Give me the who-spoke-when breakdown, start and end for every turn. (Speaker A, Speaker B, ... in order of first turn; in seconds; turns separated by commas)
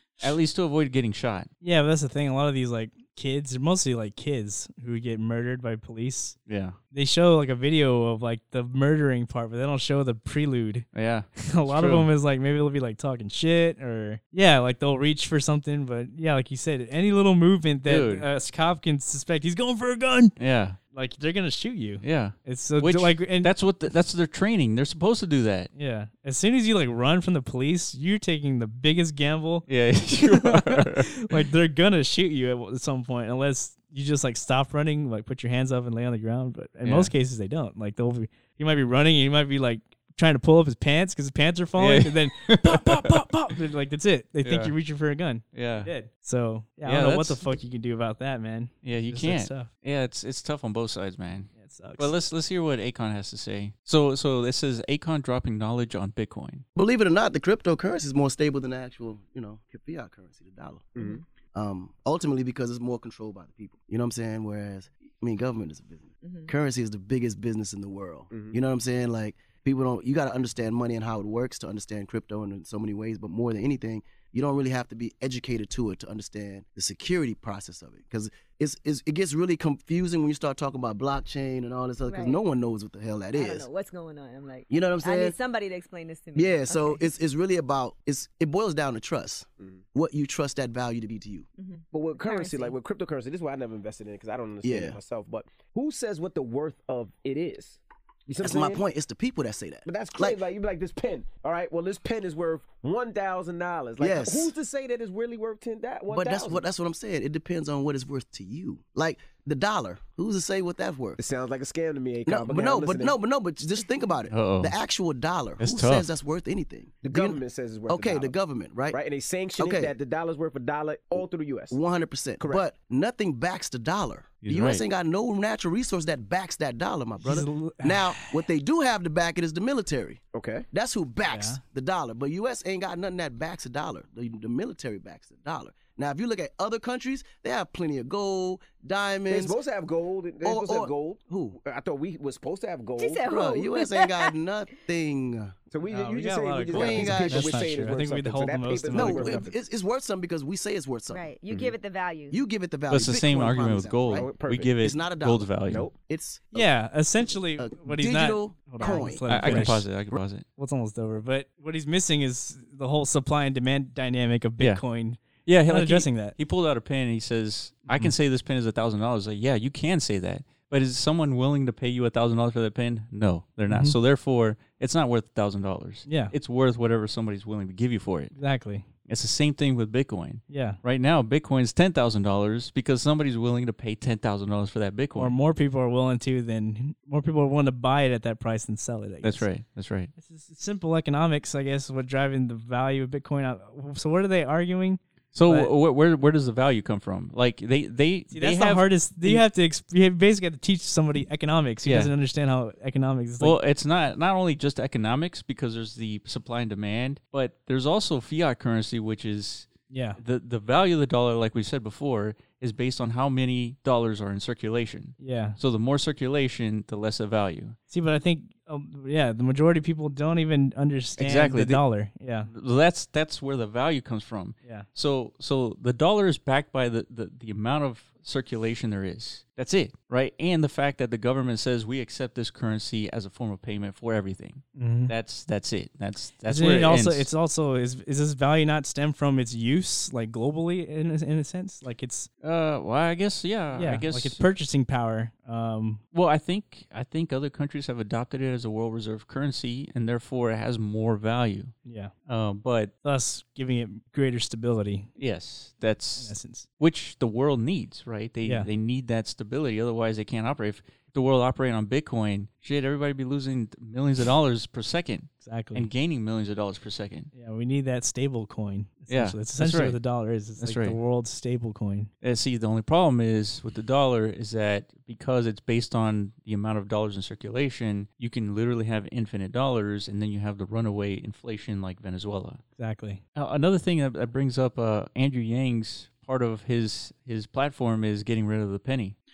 Speaker A: 0.2-1.5, Speaker B: 1.6-6.3, Speaker A: 6.5-6.8, Speaker B: 6.9-20.4, Speaker A: 10.9-12.1, Speaker A: 17.9-18.3, Speaker A: 20.4-20.8, Speaker B: 20.9-23.5, Speaker A: 22.0-25.7, Speaker B: 25.7-49.7, Speaker A: 29.7-31.4, Speaker A: 36.8-37.1, Speaker A: 41.8-43.3, Speaker A: 44.4-44.7, Speaker A: 45.5-45.9, Speaker A: 46.8-47.5, Speaker A: 48.8-56.6, Speaker B: 51.6-52.1, Speaker C: 56.7-83.7, Speaker D: 66.2-66.5, Speaker E: 68.3-68.5, Speaker D: 82.0-82.4, Speaker D: 83.3-87.1, Speaker C: 84.7-85.3, Speaker C: 86.3-91.5, Speaker D: 91.6-92.7, Speaker E: 91.9-98.8, Speaker C: 94.6-95.0, Speaker C: 98.4-100.4, Speaker E: 99.8-106.6, Speaker C: 104.0-104.5, Speaker C: 106.1-111.2, Speaker E: 111.2-113.2, Speaker C: 112.2-119.0, Speaker A: 114.3-114.7, Speaker A: 115.6-116.1, Speaker E: 117.0-118.3, Speaker E: 118.9-121.8, Speaker C: 119.6-119.9, Speaker C: 121.7-130.2, Speaker A: 124.4-124.8, Speaker B: 127.2-128.5, Speaker E: 130.3-130.7, Speaker C: 130.7-139.6, Speaker B: 131.3-131.6, Speaker E: 139.3-143.3, Speaker C: 140.4-141.6, Speaker D: 143.0-144.3, Speaker C: 143.2-145.6, Speaker E: 145.7-149.5, Speaker B: 145.8-149.5, Speaker C: 146.7-147.8, Speaker C: 148.9-151.7, Speaker D: 151.1-152.4, Speaker C: 152.3-156.7, Speaker A: 152.9-155.9, Speaker E: 154.1-154.7, Speaker E: 155.7-156.0, Speaker B: 156.5-159.8, Speaker C: 157.6-159.8, Speaker A: 159.3-160.4, Speaker B: 160.6-166.4, Speaker A: 165.4-178.3, Speaker B: 173.7-174.0, Speaker B: 176.1-176.3, Speaker B: 178.3-178.8, Speaker A: 179.0-185.3, Speaker B: 180.5-180.8, Speaker B: 185.2-189.5, Speaker A: 189.2-190.1, Speaker B: 190.2-195.7, Speaker A: 195.3-199.4, Speaker B: 198.3-203.6, Speaker A: 201.8-202.1, Speaker A: 203.4-217.8, Speaker B: 209.9-210.2, Speaker B: 215.2-215.6, Speaker B: 217.9-222.5, Speaker A: 221.2-221.8, Speaker A: 222.4-237.3, Speaker B: 234.8-235.1, Speaker B: 236.4-242.3, Speaker A: 242.4-244.4, Speaker B: 243.7-246.0, Speaker A: 246.1-251.7, Speaker B: 251.8-252.1, Speaker A: 252.3-252.9, Speaker B: 253.0-255.1, Speaker A: 255.2-267.3, Speaker B: 256.2-256.7, Speaker B: 258.4-258.7, Speaker B: 265.4-265.9, Speaker B: 267.3-272.1, Speaker A: 269.1-270.0, Speaker A: 270.6-271.0, Speaker A: 272.2-282.6, Speaker B: 282.8-283.2, Speaker A: 283.3-289.1